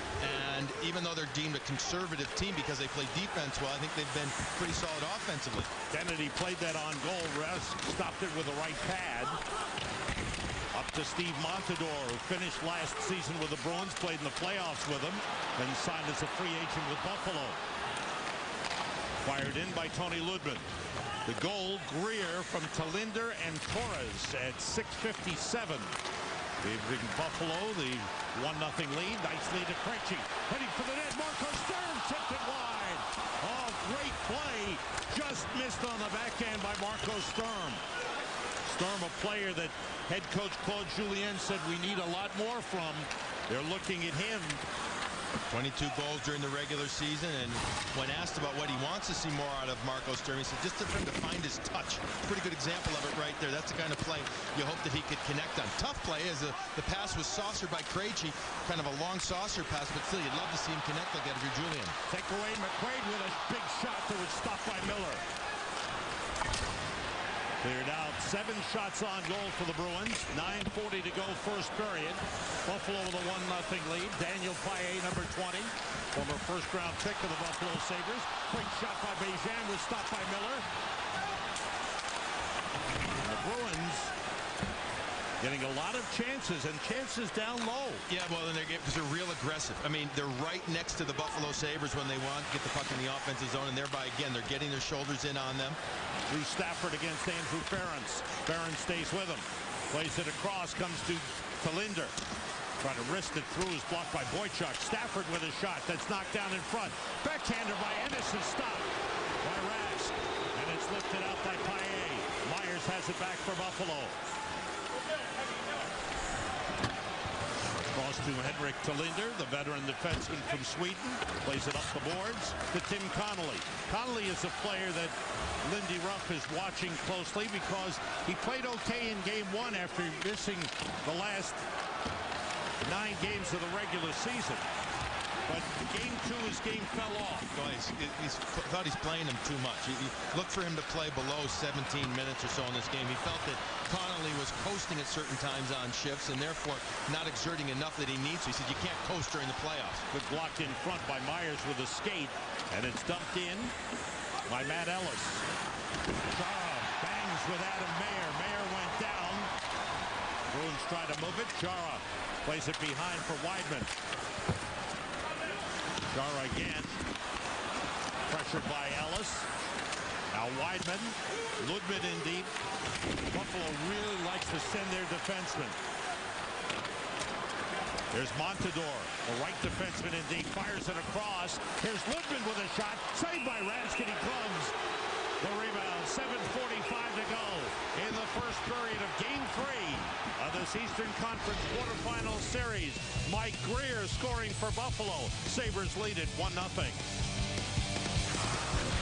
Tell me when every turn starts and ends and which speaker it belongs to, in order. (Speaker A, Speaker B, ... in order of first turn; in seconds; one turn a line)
Speaker A: 0.2-5.7
Speaker B: 5.9-9.4
Speaker B: 10.7-17.6
Speaker B: 19.2-20.7
Speaker B: 21.3-25.9
Speaker B: 26.6-37.8
Speaker B: 38.7-44.6
Speaker A: 45.5-62.0
Speaker B: 62.1-65.2
Speaker B: 67.6-80.7
Speaker B: 83.2-84.1
Speaker B: 85.4-88.0
Speaker A: 88.1-95.8
Speaker B: 96.3-102.1
Speaker B: 102.8-108.9
Speaker B: 109.4-114.2
Speaker B: 117.7-131.6
Speaker B: 132.8-134.7
Speaker B: 135.5-137.5
Speaker A: 137.5-150.0
Speaker B: 150.1-153.7
Speaker B: 154.5-155.4
Speaker B: 156.3-159.5
Speaker B: 160.5-163.9
Speaker B: 166.1-167.0
Speaker B: 168.3-169.5
Speaker B: 170.3-172.5
Speaker B: 173.3-175.8
Speaker B: 178.1-184.7
Speaker B: 185.4-197.0